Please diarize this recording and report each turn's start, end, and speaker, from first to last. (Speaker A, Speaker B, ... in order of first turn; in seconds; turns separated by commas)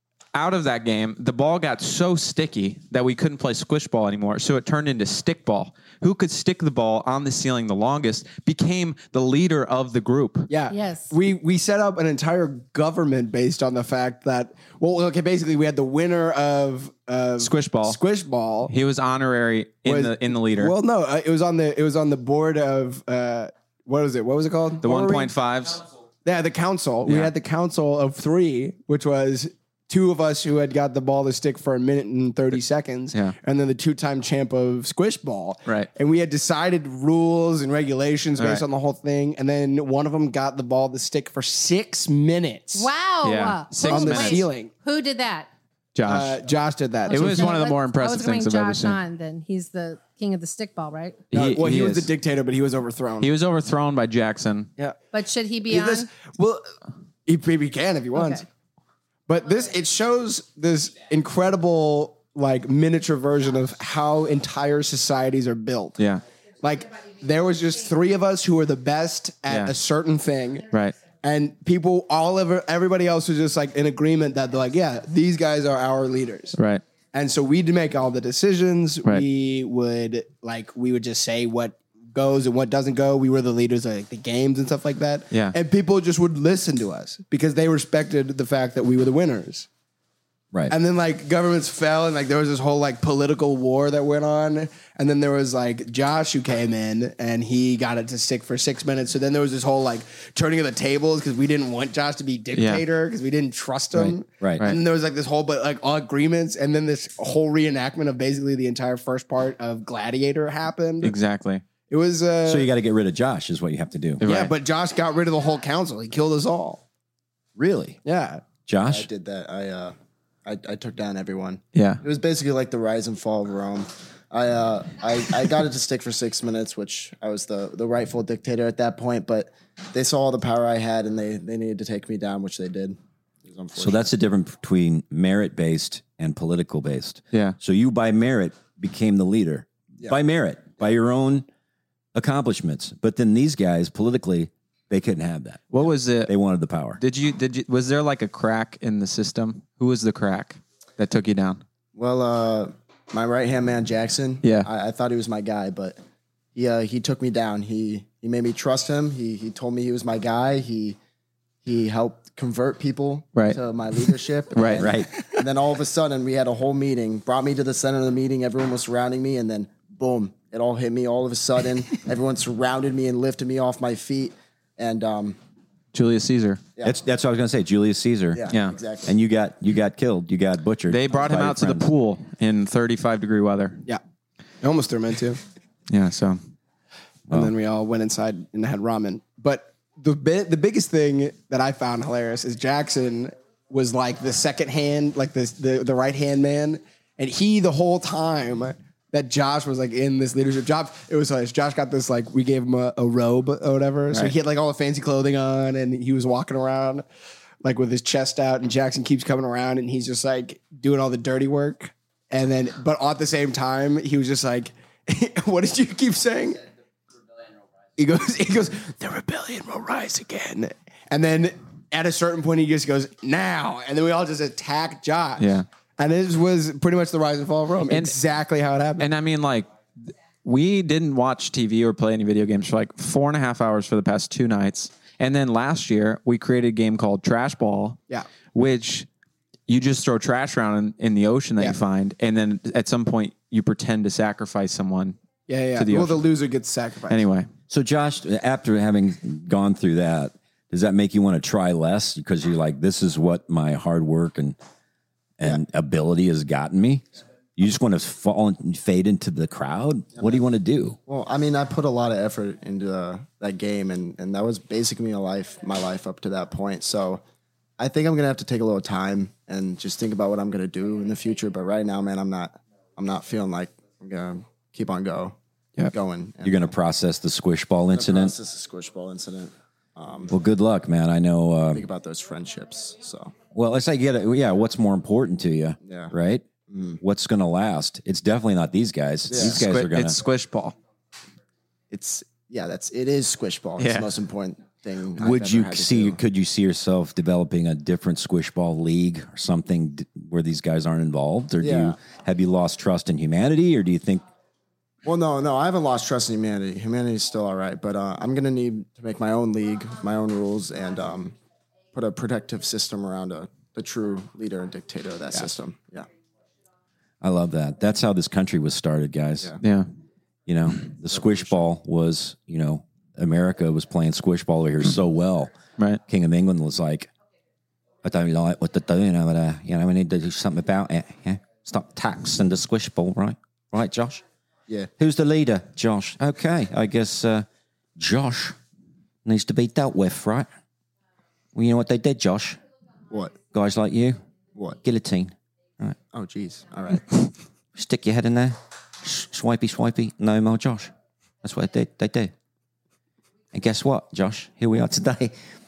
Speaker A: 0.3-10.5, Speaker B: 10.5-18.7, Speaker C: 10.7-11.1, Speaker A: 17.4-18.0, Speaker A: 18.7-20.8, Speaker B: 19.9-25.3, Speaker A: 24.8-25.8, Speaker B: 26.2-42.9, Speaker A: 27.1-27.3, Speaker A: 38.4-38.6, Speaker C: 42.7-45.5, Speaker A: 43.2-44.5, Speaker B: 43.8-44.7, Speaker A: 46.0-46.4, Speaker B: 46.0-47.5, Speaker C: 47.1-51.2, Speaker A: 47.1-49.0, Speaker A: 51.3-52.1, Speaker B: 51.3-53.3, Speaker A: 53.2-54.7, Speaker C: 55.1-56.1, Speaker B: 55.7-56.6, Speaker B: 57.3-58.5, Speaker C: 58.1-58.4, Speaker B: 59.3-66.0, Speaker A: 66.0-66.2, Speaker B: 66.6-70.7, Speaker A: 69.5-69.7, Speaker A: 70.7-71.0, Speaker B: 71.2-76.6, Speaker A: 76.6-76.8, Speaker B: 77.1-89.7, Speaker B: 90.7-111.2, Speaker A: 102.5-102.8, Speaker D: 104.0-104.7, Speaker A: 111.0-111.6, Speaker B: 111.9-112.7, Speaker D: 112.4-114.2, Speaker A: 114.2-114.5, Speaker B: 114.2-116.8, Speaker D: 117.6-118.0, Speaker B: 118.0-118.4, Speaker D: 118.7-119.1, Speaker E: 118.9-134.1, Speaker A: 121.8-122.0, Speaker D: 133.8-141.5, Speaker D: 142.2-147.0, Speaker A: 145.7-146.3, Speaker A: 147.0-151.6, Speaker E: 151.9-156.0, Speaker A: 154.4-154.7, Speaker E: 156.6-161.0, Speaker E: 161.6-175.4, Speaker A: 164.5-164.9, Speaker D: 164.8-165.1, Speaker A: 175.9-176.6, Speaker D: 176.8-178.5, Speaker E: 178.3-179.1, Speaker A: 178.5-178.8, Speaker D: 179.0-181.9, Speaker A: 180.9-183.8, Speaker B: 184.6-185.4, Speaker A: 185.9-186.4, Speaker B: 187.3-207.1, Speaker B: 207.6-216.6, Speaker B: 218.0-229.1, Speaker A: 225.4-225.7, Speaker A: 227.9-228.2, Speaker A: 229.0-229.7, Speaker A: 230.4-238.0, Speaker A: 238.5-239.1, Speaker A: 239.7-245.2, Speaker B: 245.5-247.2, Speaker A: 245.8-246.3, Speaker A: 247.1-247.5, Speaker D: 247.7-254.6, Speaker D: 255.4-261.0, Speaker E: 260.2-260.4, Speaker E: 261.1-267.2, Speaker E: 267.8-275.4, Speaker E: 275.9-276.7, Speaker D: 276.4-278.4, Speaker E: 277.9-280.3, Speaker D: 280.3-281.9, Speaker E: 281.7-283.3, Speaker D: 283.5-286.5, Speaker E: 285.8-286.1, Speaker E: 286.7-287.0, Speaker D: 287.0-290.2, Speaker E: 289.3-289.6, Speaker A: 289.4-290.8, Speaker E: 291.9-296.2, Speaker A: 293.8-294.1, Speaker D: 295.2-304.2, Speaker E: 301.6-302.0, Speaker E: 305.0-311.3, Speaker E: 311.9-316.1, Speaker D: 317.2-319.6, Speaker A: 319.6-319.9, Speaker D: 320.5-325.6, Speaker E: 321.1-321.5, Speaker D: 326.1-327.1, Speaker D: 328.0-334.2, Speaker D: 335.0-337.5, Speaker D: 338.0-338.6, Speaker D: 339.2-340.5, Speaker D: 341.6-342.6, Speaker E: 343.1-343.4, Speaker D: 343.5-344.2, Speaker E: 344.6-344.8, Speaker D: 344.8-346.0, Speaker E: 346.1-347.1, Speaker D: 347.8-350.9, Speaker D: 351.4-352.3, Speaker D: 353.5-355.3